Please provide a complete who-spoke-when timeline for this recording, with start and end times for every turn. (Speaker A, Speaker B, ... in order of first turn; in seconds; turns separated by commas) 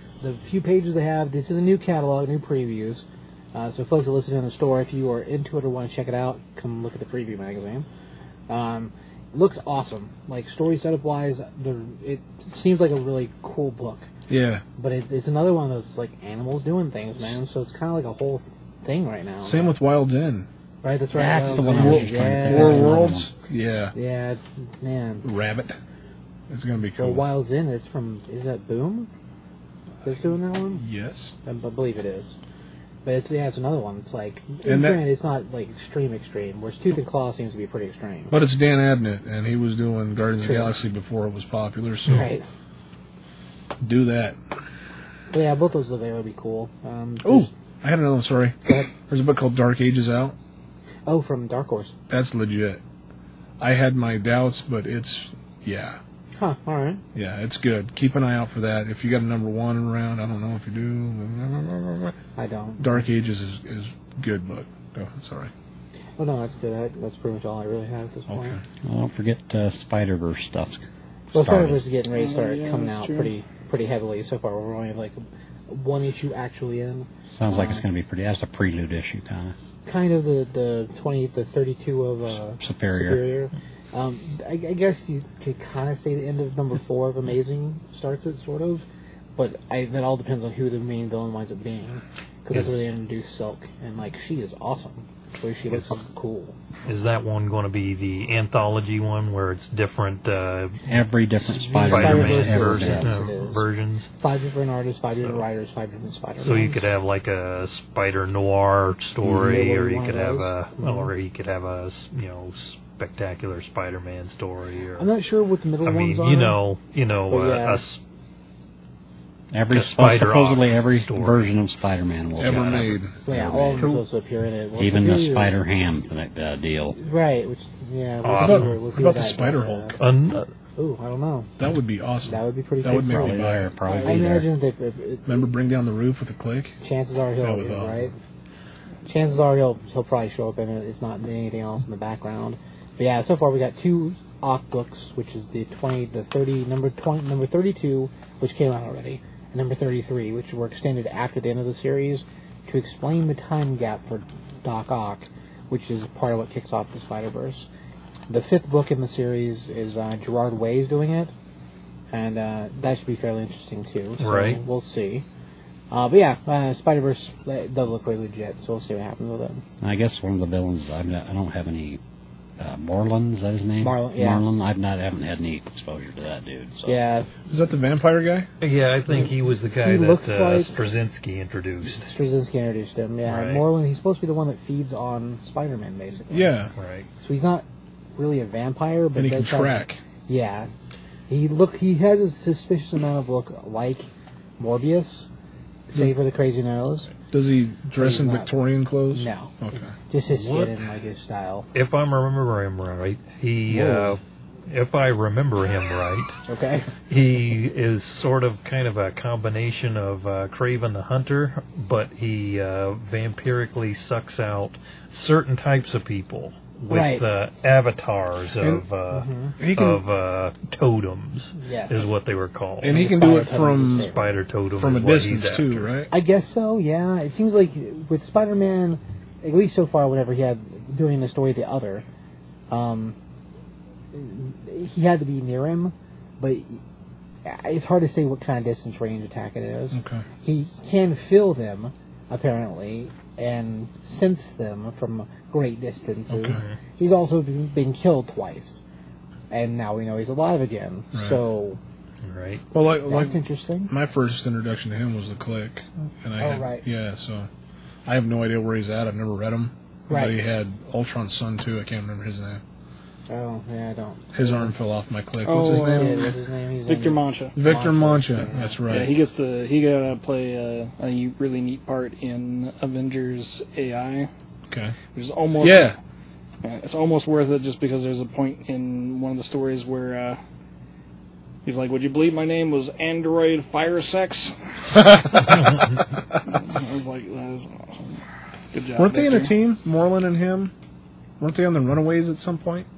Speaker A: 0.2-7.9, Speaker A: 8.5-14.1, Speaker B: 14.3-14.6, Speaker A: 14.8-19.7, Speaker B: 19.4-20.5, Speaker A: 20.8-23.1, Speaker C: 21.1-23.3, Speaker B: 21.6-23.9, Speaker A: 23.9-25.2, Speaker B: 25.2-25.7, Speaker B: 26.5-27.2, Speaker A: 27.0-29.1, Speaker A: 30.0-30.8, Speaker B: 30.8-31.3, Speaker A: 31.5-32.4, Speaker A: 33.0-38.3, Speaker B: 34.6-35.0, Speaker B: 38.3-42.3, Speaker A: 40.4-40.7, Speaker A: 42.1-42.5, Speaker B: 43.8-44.4, Speaker A: 45.3-47.5, Speaker B: 47.2-50.4, Speaker A: 51.1-52.0, Speaker B: 52.1-52.8, Speaker B: 53.6-56.0, Speaker A: 56.4-57.0, Speaker B: 57.1-62.1, Speaker A: 62.4-63.1, Speaker B: 62.8-65.5, Speaker A: 66.2-68.6, Speaker B: 68.3-68.6, Speaker C: 68.8-71.8, Speaker A: 71.3-77.8, Speaker D: 72.1-73.3, Speaker C: 77.3-79.5, Speaker A: 79.9-88.8, Speaker C: 82.6-83.2, Speaker A: 89.4-96.6, Speaker E: 96.9-100.8, Speaker C: 100.9-103.1, Speaker A: 101.5-103.6, Speaker E: 101.7-104.1, Speaker A: 104.2-106.9, Speaker E: 105.1-105.5, Speaker E: 106.4-115.1, Speaker A: 109.2-111.1, Speaker A: 115.0-116.6, Speaker E: 115.8-118.0, Speaker A: 117.3-117.8, Speaker C: 119.5-124.0, Speaker E: 119.7-121.5, Speaker B: 122.4-123.2, Speaker E: 122.5-122.9, Speaker A: 123.2-125.6, Speaker C: 124.8-127.0, Speaker A: 127.0-130.0, Speaker E: 128.2-128.8, Speaker B: 128.4-130.0, Speaker E: 129.9-130.5, Speaker A: 130.8-131.5, Speaker B: 131.6-134.2, Speaker A: 132.2-133.4, Speaker C: 133.1-134.5, Speaker A: 134.0-135.4, Speaker B: 135.3-136.8, Speaker A: 136.8-138.2, Speaker B: 137.4-138.1, Speaker A: 139.1-157.7, Speaker A: 158.3-161.3, Speaker A: 162.1-165.3, Speaker E: 164.2-164.6, Speaker A: 165.9-169.6, Speaker C: 169.8-172.0, Speaker C: 172.6-177.0, Speaker A: 173.8-174.4, Speaker A: 176.8-177.3, Speaker B: 177.5-178.5, Speaker E: 178.6-182.1, Speaker A: 179.1-180.8, Speaker A: 181.8-186.5, Speaker E: 183.3-183.7, Speaker B: 186.3-186.7, Speaker E: 186.8-187.1, Speaker A: 187.2-187.7, Speaker A: 188.2-190.7, Speaker B: 189.2-190.0, Speaker A: 191.3-194.1, Speaker A: 194.6-195.3, Speaker A: 195.9-197.1, Speaker B: 197.2-200.0, Speaker A: 198.0-198.5, Speaker A: 199.1-201.7, Speaker E: 200.2-200.7, Speaker E: 201.7-206.4, Speaker A: 203.7-204.2, Speaker A: 206.5-206.9, Speaker E: 207.1-223.1, Speaker A: 216.9-217.3, Speaker B: 218.6-218.8, Speaker A: 219.1-219.6, Speaker B: 219.6-220.0, Speaker A: 221.6-222.1, Speaker B: 222.8-224.1, Speaker A: 222.8-224.2, Speaker E: 224.0-225.9, Speaker B: 224.8-226.1, Speaker A: 226.1-232.1, Speaker A: 232.7-233.2, Speaker A: 234.1-236.8, Speaker A: 237.4-248.8, Speaker B: 239.9-240.2, Speaker B: 246.3-246.6, Speaker A: 249.5-251.8, Speaker B: 251.1-251.4, Speaker E: 252.2-252.6, Speaker B: 252.7-257.5, Speaker A: 253.1-253.9, Speaker A: 256.4-256.8, Speaker B: 258.1-262.6, Speaker A: 260.1-260.4, Speaker A: 263.3-264.7, Speaker B: 264.3-266.3, Speaker D: 265.4-266.3, Speaker A: 265.9-268.8, Speaker D: 266.9-267.6, Speaker B: 267.6-269.2, Speaker D: 268.9-274.3, Speaker B: 274.7-275.0, Speaker D: 275.1-275.9, Speaker B: 275.6-276.0, Speaker D: 276.6-280.4, Speaker D: 281.6-285.9, Speaker B: 285.1-285.6, Speaker D: 286.5-288.2, Speaker D: 288.7-289.6, Speaker B: 289.0-290.7, Speaker B: 291.4-292.9